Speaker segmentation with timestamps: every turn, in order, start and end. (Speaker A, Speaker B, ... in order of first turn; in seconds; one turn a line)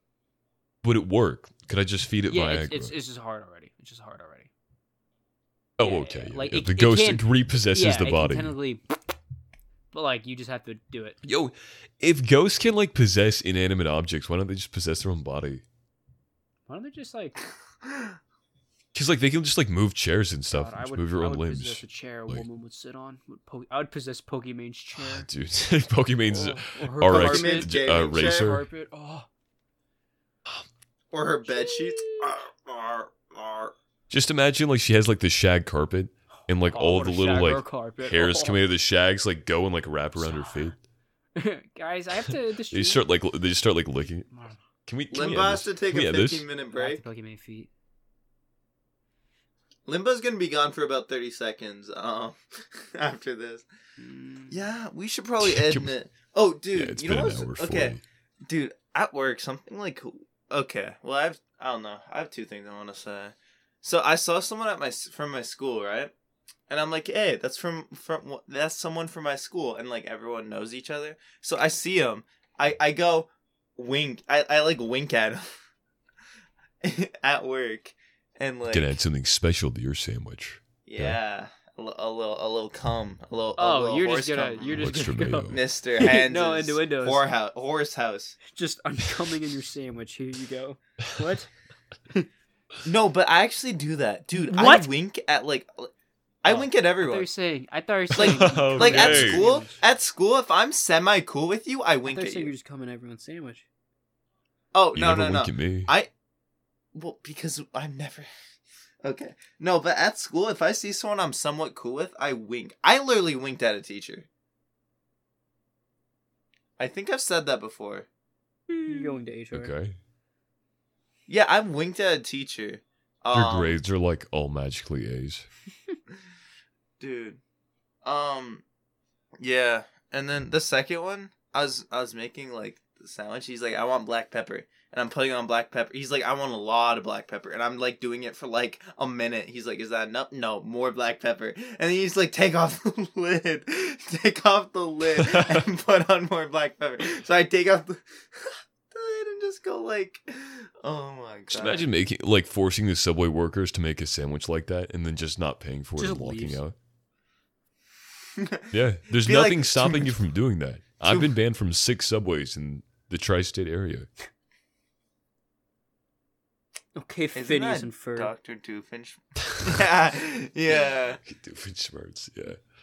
Speaker A: 0.8-2.9
Speaker B: 2.3-4.5
Speaker A: 5.8-8.6
Speaker B: 5.8-8.8
Speaker B: 9.9-11.2
Speaker A: 11.2-15.6
Speaker B: 16.7-17.4
Speaker C: 17.8-18.1
Speaker A: 18.9-22.4
Speaker B: 20.5-25.3
Speaker A: 25.0-28.6
Speaker B: 26.3-29.3
Speaker C: 27.1-28.5
Speaker C: 31.1-33.7
Speaker B: 31.5-32.4
Speaker A: 34.1-40.8
Speaker B: 36.6-38.6
Speaker B: 40.2-40.7
Speaker B: 41.4-43.0
Speaker A: 42.3-44.3
Speaker B: 44.3-44.6
Speaker A: 44.9-46.5
Speaker C: 45.1-47.0
Speaker B: 46.7-47.7
Speaker C: 49.9-53.6
Speaker B: 54.0-54.7
Speaker C: 54.5-66.1
Speaker A: 55.4-55.9
Speaker A: 56.7-58.0
Speaker C: 66.7-75.5
Speaker C: 76.8-79.0
Speaker A: 78.7-81.2
Speaker C: 80.9-84.8
Speaker B: 83.6-87.3
Speaker A: 84.8-85.6
Speaker C: 85.5-88.3
Speaker B: 88.4-91.5
Speaker C: 92.8-95.9
Speaker B: 94.3-94.9
Speaker C: 96.4-97.3
Speaker B: 96.5-99.8
Speaker A: 98.1-99.5
Speaker C: 98.2-102.5
Speaker B: 102.1-103.7
Speaker C: 104.7-106.1
Speaker A: 104.9-105.9
Speaker C: 106.9-108.3
Speaker C: 109.0-114.3
Speaker C: 116.8-118.1
Speaker B: 118.7-119.7
Speaker A: 119.5-120.0
Speaker C: 121.3-123.8
Speaker A: 123.3-125.5
Speaker C: 127.0-127.4
Speaker C: 128.0-128.6
Speaker C: 129.4-151.9
Speaker A: 145.1-145.6
Speaker A: 151.5-156.7
Speaker B: 156.0-156.6
Speaker C: 158.3-158.7
Speaker A: 158.7-164.1
Speaker C: 159.2-160.1
Speaker C: 161.1-161.3
Speaker B: 166.9-168.3
Speaker C: 167.3-171.2
Speaker A: 169.5-169.8
Speaker A: 171.2-172.6